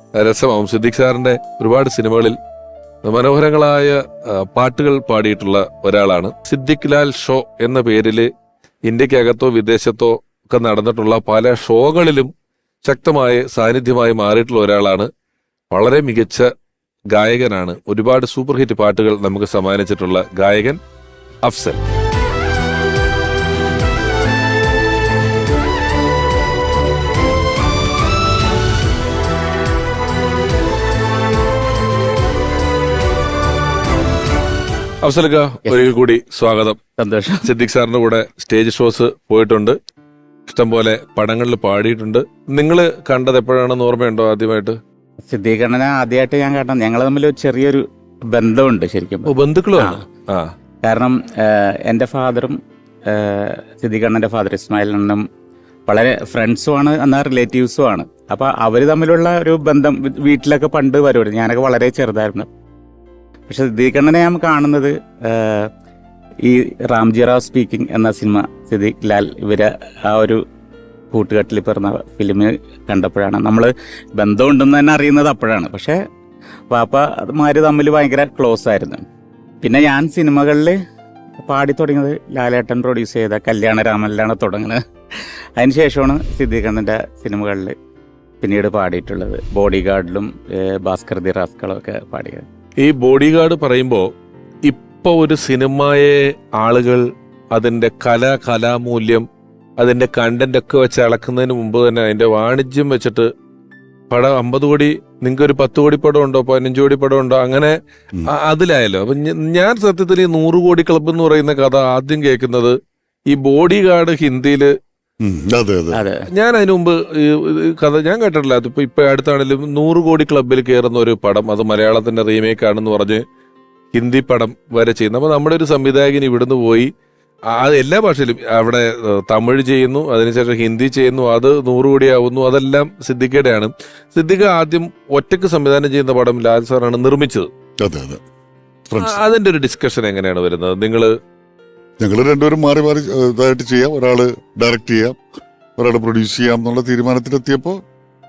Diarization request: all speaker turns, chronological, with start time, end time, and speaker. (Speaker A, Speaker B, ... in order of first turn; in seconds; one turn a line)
Speaker A: 0.2-2.4
Speaker A: 3.0-8.3
Speaker A: 8.9-12.3
Speaker A: 12.8-15.1
Speaker A: 15.7-16.5
Speaker A: 17.1-20.8
Speaker A: 21.4-21.8
Speaker A: 35.0-36.8
Speaker B: 37.0-37.5
Speaker A: 37.4-39.8
Speaker A: 40.5-44.8
Speaker B: 45.3-50.0
Speaker A: 49.3-50.5
Speaker B: 50.8-52.6
Speaker B: 53.1-55.2
Speaker B: 55.9-62.5
Speaker B: 63.5-65.7
Speaker B: 66.5-70.4
Speaker B: 71.1-76.0
Speaker B: 76.7-79.0
Speaker B: 79.6-80.8
Speaker B: 81.4-84.8
Speaker B: 85.6-87.7
Speaker B: 88.4-92.4
Speaker A: 92.8-94.0
Speaker A: 94.7-99.2
Speaker A: 99.8-103.3
Speaker A: 104.1-107.8
Speaker A: 108.3-112.7
Speaker A: 113.3-114.7
Speaker C: 115.2-116.0
Speaker B: 115.9-116.2
Speaker A: 116.3-123.2
Speaker A: 123.9-126.9
Speaker A: 127.5-137.5
Speaker C: 137.8-138.2
Speaker C: 138.9-139.2
Speaker A: 139.0-141.1
Speaker C: 142.0-145.2
Speaker C: 145.8-147.8